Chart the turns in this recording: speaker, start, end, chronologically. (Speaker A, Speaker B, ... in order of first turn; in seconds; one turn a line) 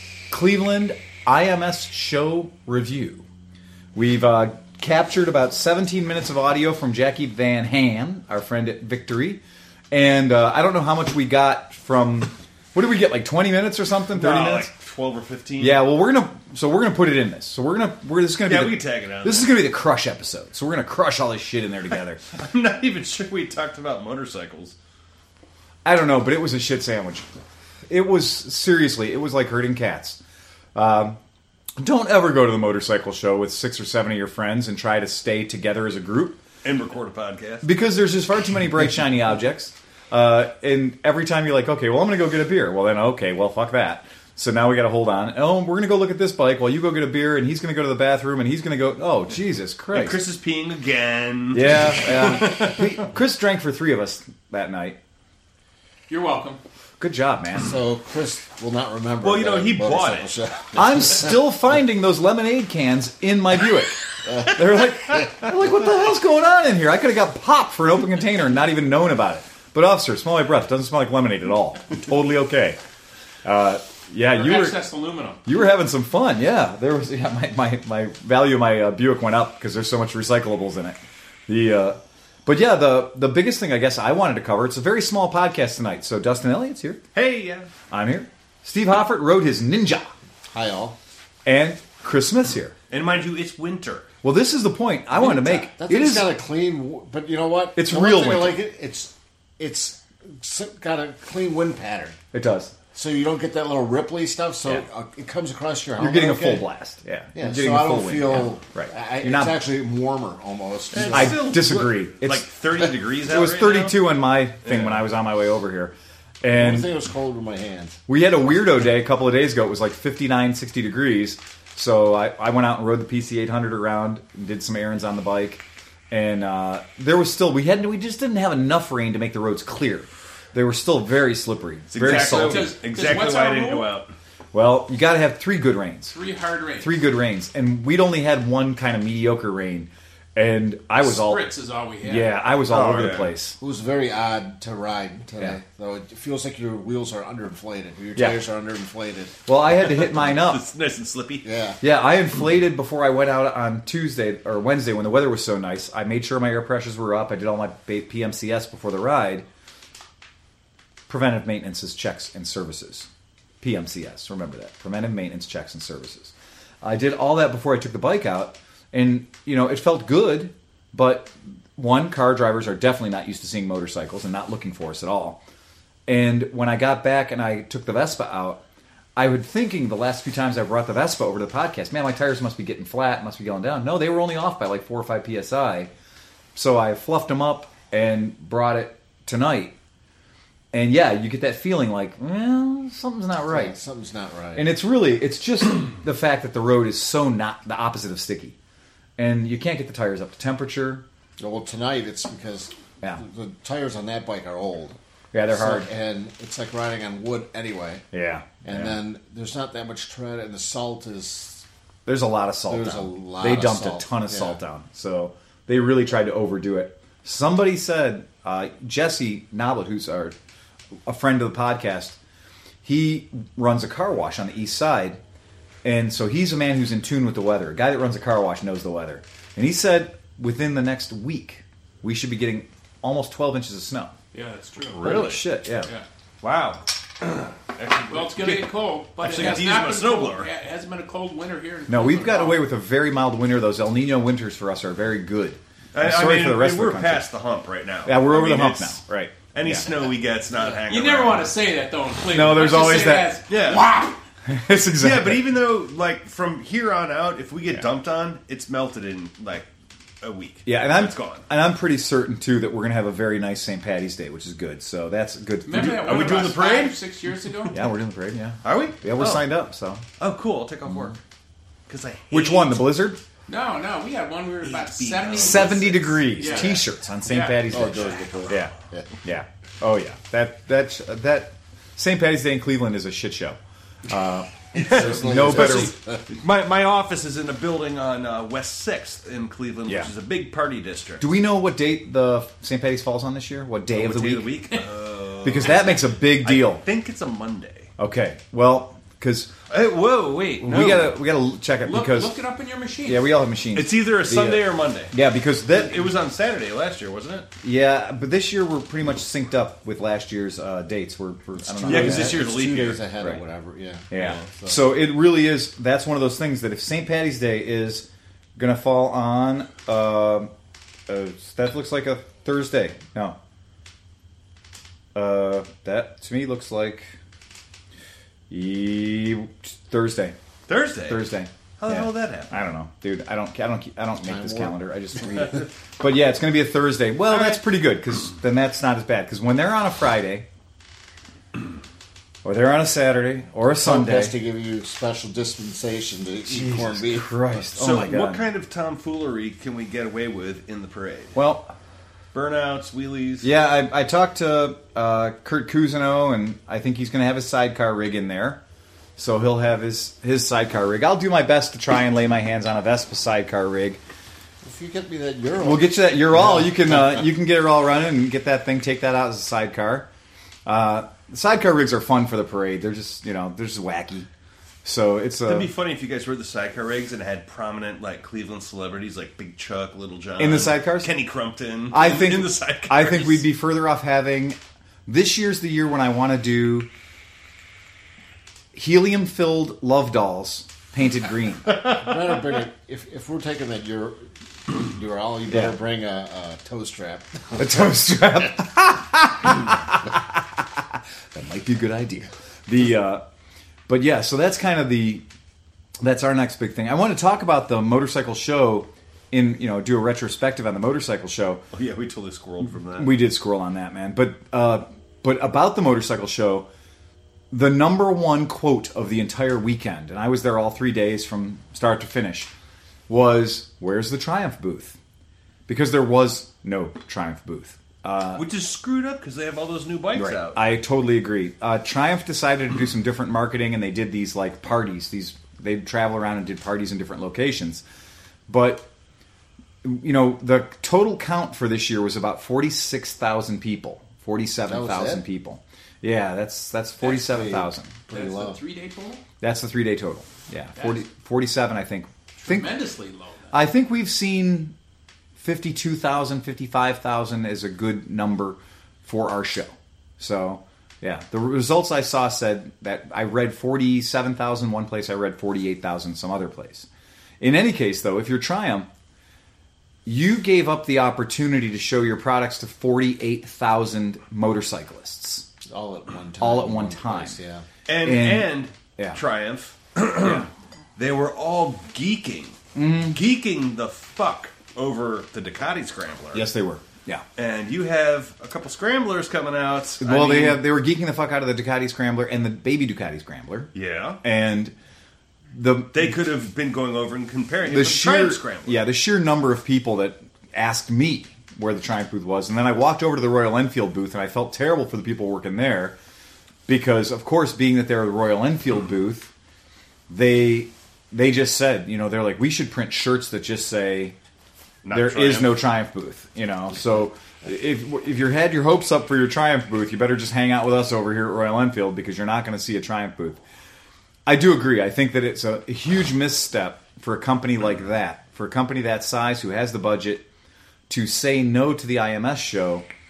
Speaker A: 0.3-3.3
Speaker A: 4.0-9.4
Speaker A: 9.9-14.7
Speaker B: 14.2-15.8
Speaker A: 15.6-22.2
Speaker B: 18.5-19.6
Speaker B: 22.4-24.8
Speaker A: 25.9-27.3
Speaker A: 27.9-30.2
Speaker A: 30.8-31.2
Speaker A: 31.8-36.4
Speaker B: 36.6-37.6
Speaker A: 37.6-50.2
Speaker B: 49.9-52.9
Speaker A: 51.5-55.0
Speaker C: 56.1-56.6
Speaker A: 57.0-57.7
Speaker D: 57.6-61.4
Speaker B: 59.2-60.4
Speaker A: 60.8-72.8
Speaker D: 64.2-65.3
Speaker A: 73.4-74.8
Speaker C: 74.3-75.4
Speaker A: 75.4-87.0
Speaker B: 87.1-87.7
Speaker A: 87.9-90.1
Speaker D: 90.5-91.0
Speaker A: 91.5-92.8
Speaker B: 92.9-94.1
Speaker A: 94.2-96.3
Speaker D: 95.1-102.2
Speaker A: 97.8-98.6
Speaker A: 102.3-102.7
Speaker D: 102.9-106.7
Speaker A: 106.0-109.6
Speaker D: 107.3-111.5
Speaker B: 110.9-114.1
Speaker A: 111.1-112.5
Speaker A: 113.2-116.9
Speaker B: 114.7-115.0
Speaker D: 116.5-118.0
Speaker A: 118.1-132.7
Speaker B: 131.9-134.1
Speaker C: 132.0-133.9
Speaker A: 134.5-136.2
Speaker C: 136.1-137.0
Speaker A: 136.8-143.6
Speaker C: 141.0-142.3
Speaker B: 142.7-143.3
Speaker D: 143.6-149.3
Speaker A: 149.5-150.6
Speaker B: 149.9-151.4
Speaker D: 151.4-151.8
Speaker A: 151.8-159.5
Speaker A: 161.1-163.1
Speaker A: 163.6-175.4
Speaker A: 176.1-178.6
Speaker A: 179.2-185.9
Speaker A: 186.6-189.7
Speaker A: 190.7-193.8
Speaker D: 193.5-194.7
Speaker A: 194.6-198.6
Speaker A: 199.2-201.0
Speaker D: 201.4-205.0
Speaker A: 205.3-205.9
Speaker D: 205.5-208.0
Speaker A: 208.1-209.0
Speaker D: 208.6-211.7
Speaker A: 212.1-220.4
Speaker D: 212.7-214.6
Speaker A: 221.1-222.2
Speaker A: 222.8-225.2
Speaker A: 225.8-234.1
Speaker C: 234.3-235.2
Speaker B: 235.0-235.4
Speaker A: 235.0-235.9
Speaker B: 236.4-240.5
Speaker C: 238.1-242.6
Speaker A: 241.9-247.3
Speaker B: 245.9-249.0
Speaker A: 248.1-249.9
Speaker B: 249.5-251.5
Speaker C: 250.9-254.2
Speaker A: 252.3-253.4
Speaker B: 253.5-254.0
Speaker A: 254.5-255.4
Speaker B: 255.0-259.7
Speaker B: 260.2-261.4
Speaker A: 260.6-266.1
Speaker C: 265.7-267.8
Speaker B: 265.7-267.0
Speaker A: 267.7-270.1
Speaker B: 268.6-269.5
Speaker B: 270.2-271.2
Speaker B: 271.9-272.9
Speaker A: 272.3-273.2
Speaker C: 273.5-278.2
Speaker B: 274.6-276.8
Speaker A: 275.4-285.9
Speaker D: 277.7-279.1
Speaker B: 278.2-278.5
Speaker D: 284.7-286.2
Speaker B: 284.8-291.2
Speaker A: 291.2-294.5
Speaker B: 293.9-297.9
Speaker A: 295.4-296.8
Speaker A: 298.0-299.5
Speaker B: 299.7-301.1
Speaker A: 300.6-302.4
Speaker C: 301.8-303.3
Speaker A: 303.1-306.1
Speaker B: 303.7-305.1
Speaker B: 305.7-307.5
Speaker A: 307.6-312.4
Speaker D: 311.6-314.8
Speaker B: 311.8-313.0
Speaker A: 314.1-320.5
Speaker B: 314.1-314.5
Speaker A: 321.1-323.4
Speaker A: 325.1-327.1
Speaker A: 328.5-330.4
Speaker B: 330.7-331.3
Speaker A: 331.1-340.5
Speaker B: 331.8-332.5
Speaker D: 334.2-334.8
Speaker B: 337.3-337.6
Speaker A: 342.4-344.4
Speaker D: 343.8-347.6
Speaker A: 346.5-348.5
Speaker B: 347.8-351.4
Speaker A: 351.4-351.7
Speaker B: 352.3-353.5
Speaker A: 353.4-358.6
Speaker A: 359.2-364.0
Speaker D: 364.6-367.2
Speaker A: 365.6-370.1
Speaker A: 370.7-374.3
Speaker A: 374.9-375.7
Speaker B: 375.4-383.5
Speaker A: 380.4-381.1
Speaker A: 381.9-386.9
Speaker A: 388.7-392.1
Speaker D: 391.8-397.9
Speaker A: 397.6-403.2
Speaker A: 403.9-405.2
Speaker A: 406.0-411.6
Speaker B: 411.7-413.2
Speaker A: 413.0-416.7
Speaker A: 417.5-422.5
Speaker A: 423.1-425.0
Speaker A: 425.7-428.4
Speaker B: 428.4-430.6
Speaker A: 430.1-437.8
Speaker A: 438.5-438.9
Speaker A: 439.8-447.9
Speaker D: 444.7-445.2
Speaker D: 447.0-448.6
Speaker C: 448.1-449.2
Speaker A: 449.4-452.7
Speaker C: 450.8-451.0
Speaker C: 452.4-453.5
Speaker A: 453.5-454.8
Speaker A: 455.4-466.9
Speaker A: 467.4-468.9
Speaker A: 470.1-475.5
Speaker D: 475.6-477.7
Speaker A: 476.4-477.4
Speaker B: 477.9-482.6
Speaker A: 478.0-479.2
Speaker A: 480.2-480.5
Speaker A: 482.8-483.2
Speaker B: 483.1-486.5
Speaker A: 486.3-487.2
Speaker B: 487.4-490.6
Speaker A: 490.0-494.7
Speaker B: 493.7-494.2
Speaker A: 495.5-496.1
Speaker B: 495.9-498.9
Speaker A: 497.6-506.0
Speaker A: 506.7-509.3
Speaker A: 510.1-514.1
Speaker B: 514.8-515.6
Speaker A: 514.9-523.4
Speaker A: 524.3-530.3
Speaker A: 530.9-532.9